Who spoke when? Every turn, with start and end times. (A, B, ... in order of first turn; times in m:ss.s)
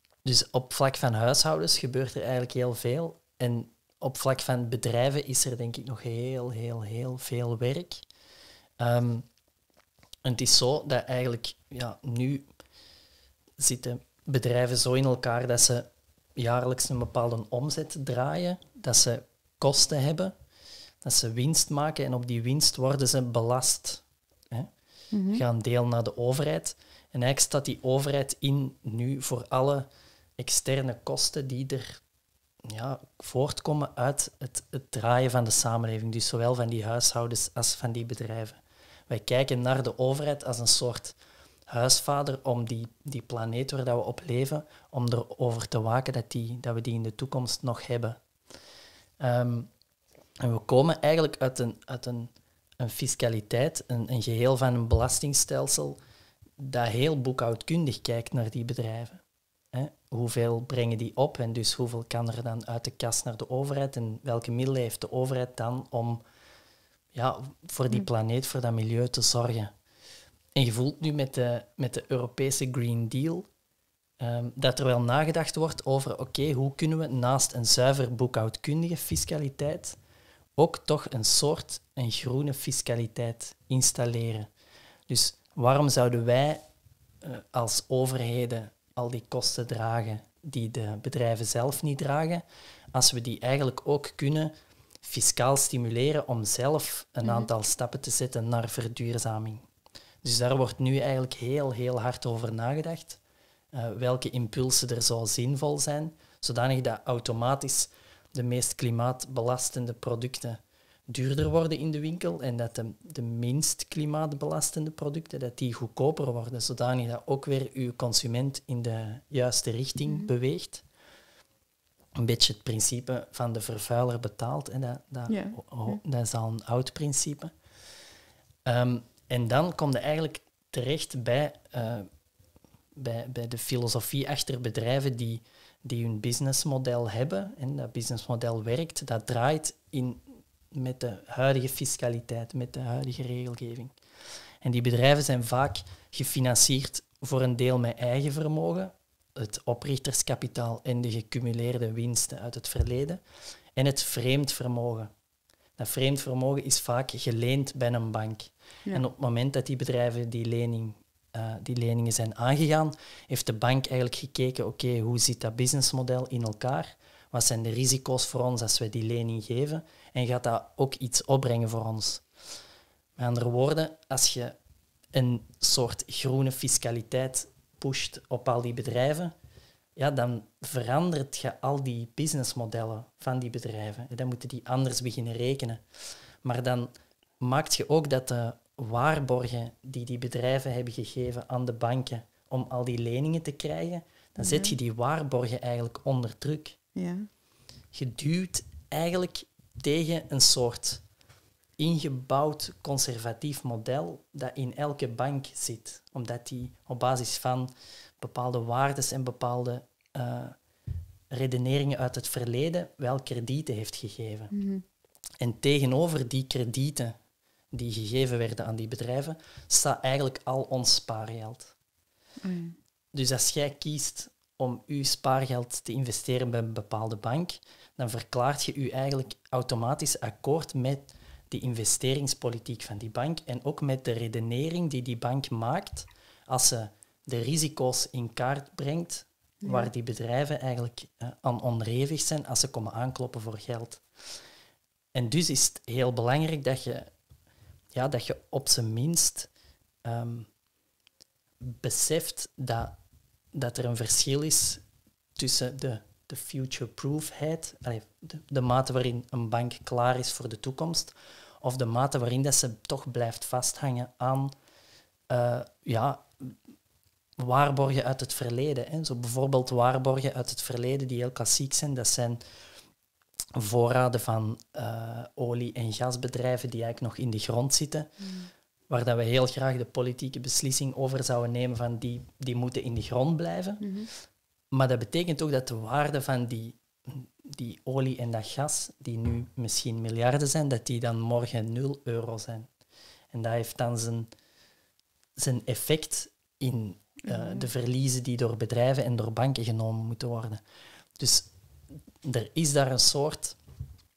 0:00.2-0:08.0 A
0:08.8-0:09.3 A
0:10.2-0:12.5 A
0:13.6-0:20.4 A
0:21.0-0:32.0 A
0:25.1-0:25.4 B
0:32.6-0:48.3 A
0:49.2-0:49.7 A
0:50.4-0:56.0 A
0:56.6-1:06.2 A
1:07.1-1:09.7 A
1:10.6-1:13.5 A
1:14.2-1:20.0 A
1:20.6-1:24.5 A
1:25.1-1:26.6 A
1:27.2-1:39.7 A
1:37.2-1:37.5 B
1:40.2-1:43.2 A
1:43.7-2:00.8 A
2:02.2-2:07.6 A
2:05.3-2:06.0 B
2:08.6-2:12.1 A
2:13.0-2:24.0 A
2:24.6-2:33.2 A
2:33.8-2:35.1 A
2:35.8-2:52.2 A
2:53.2-2:54.6 A
2:55.1-2:59.4 A
3:00.0-3:16.8 A
3:14.4-3:14.8 B
3:17.0-3:17.3 B
3:17.9-3:21.1 A
3:21.8-3:30.6 A
3:31.3-3:34.6 A
3:34.5-3:34.8 B
3:35.4-3:37.2 A
3:37.7-3:41.7 A
3:42.4-3:42.8 B
3:43.1-4:04.0 A
3:59.6-3:59.9 B
4:05.1-4:07.1 A
4:07.9-4:09.5 A
4:10.0-4:10.5 A
4:11.6-4:13.0 A
4:13.5-4:14.8 A
4:15.4-4:24.6 A
4:25.3-4:26.6 A
4:27.4-4:32.4 A
4:33.6-4:38.3 A
4:38.2-4:38.5 B
4:38.9-4:44.0 A
4:43.8-4:44.1 B
4:44.7-4:52.7 A
4:53.3-4:54.3 A
4:55.4-5:00.6 A
4:57.2-4:57.7 B
5:01.2-5:01.5 A
5:02.2-5:03.6 A